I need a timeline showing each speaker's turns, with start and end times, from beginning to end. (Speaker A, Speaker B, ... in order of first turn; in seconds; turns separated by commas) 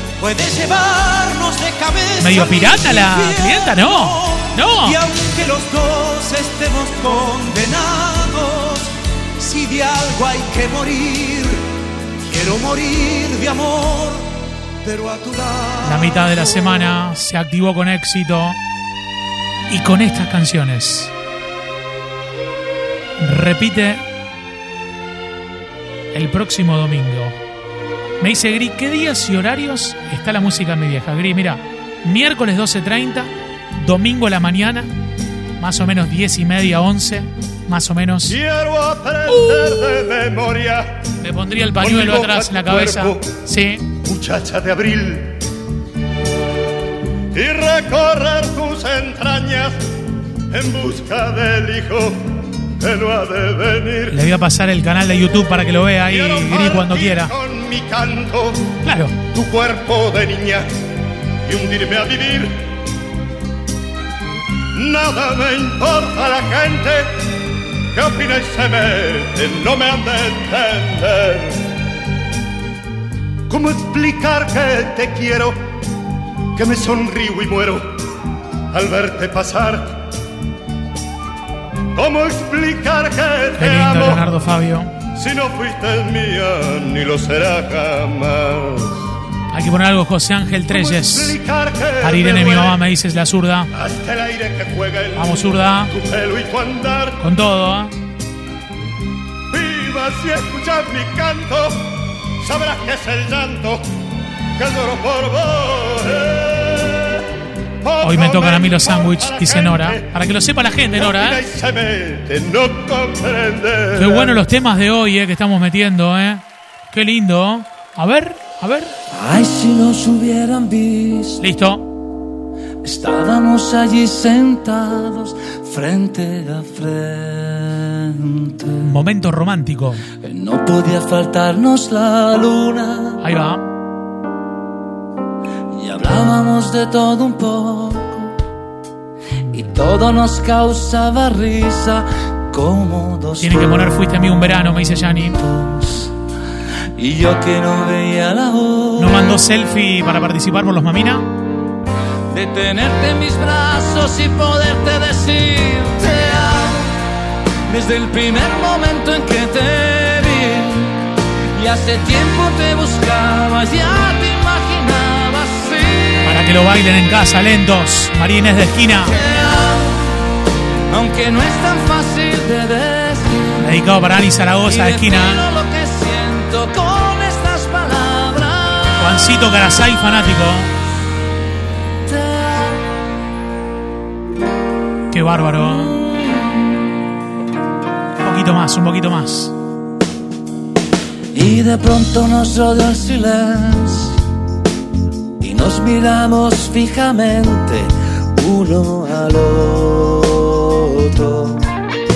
Speaker A: 0.2-11.6, Speaker B: 2.2-5.0, Speaker A: 12.2-14.3, Speaker A: 14.8-17.0, Speaker B: 15.8-18.6, Speaker B: 19.7-21.1, Speaker B: 23.2-24.0, Speaker B: 26.1-27.4, Speaker B: 28.2-34.9, Speaker B: 35.6-38.4, Speaker C: 38.3-41.0, Speaker B: 39.5-39.9, Speaker B: 41.2-43.8, Speaker C: 41.8-43.2, Speaker C: 44.0-45.3, Speaker C: 47.3-49.8, Speaker C: 50.5-52.2, Speaker C: 52.8-54.2, Speaker B: 54.1-57.3, Speaker C: 56.0-58.6, Speaker B: 58.9-59.1, Speaker C: 59.2-60.7, Speaker C: 61.5-62.5, Speaker C: 64.7-67.1, Speaker C: 68.0-71.6, Speaker C: 73.5-75.5, Speaker C: 76.5-77.8, Speaker C: 78.7-80.0, Speaker C: 82.0-84.3, Speaker B: 83.6-84.9, Speaker C: 85.2-89.0, Speaker B: 89.5-91.4, Speaker C: 90.7-92.8, Speaker B: 92.0-93.7, Speaker C: 93.7-95.4, Speaker B: 95.2-95.9, Speaker C: 95.9-97.2, Speaker B: 97.2-97.9, Speaker C: 99.5-101.8, Speaker C: 102.4-103.8, Speaker C: 104.6-107.2, Speaker C: 107.8-110.1, Speaker B: 108.0-111.4, Speaker C: 110.9-114.4, Speaker B: 114.0-118.9, Speaker D: 119.1-121.4, Speaker B: 121.4-121.9, Speaker D: 122.8-128.8, Speaker B: 128.8-130.0, Speaker D: 130.2-133.2, Speaker B: 133.2-133.7, Speaker D: 135.7-138.3, Speaker D: 139.5-144.0, Speaker B: 143.4-145.4, Speaker D: 145.4-146.1, Speaker D: 147.0-149.4, Speaker B: 149.0-151.3, Speaker D: 152.3-156.9, Speaker D: 157.7-161.0, Speaker D: 161.5-166.4, Speaker B: 166.2-169.2, Speaker D: 169.1-170.1, Speaker D: 170.9-173.6, Speaker B: 173.6-175.4, Speaker D: 174.7-179.3, Speaker B: 179.0-180.7, Speaker D: 182.1-182.8, Speaker B: 185.1-185.9, Speaker D: 185.6-186.8, Speaker B: 188.2-189.5, Speaker D: 191.3-194.2, Speaker D: 195.4-201.6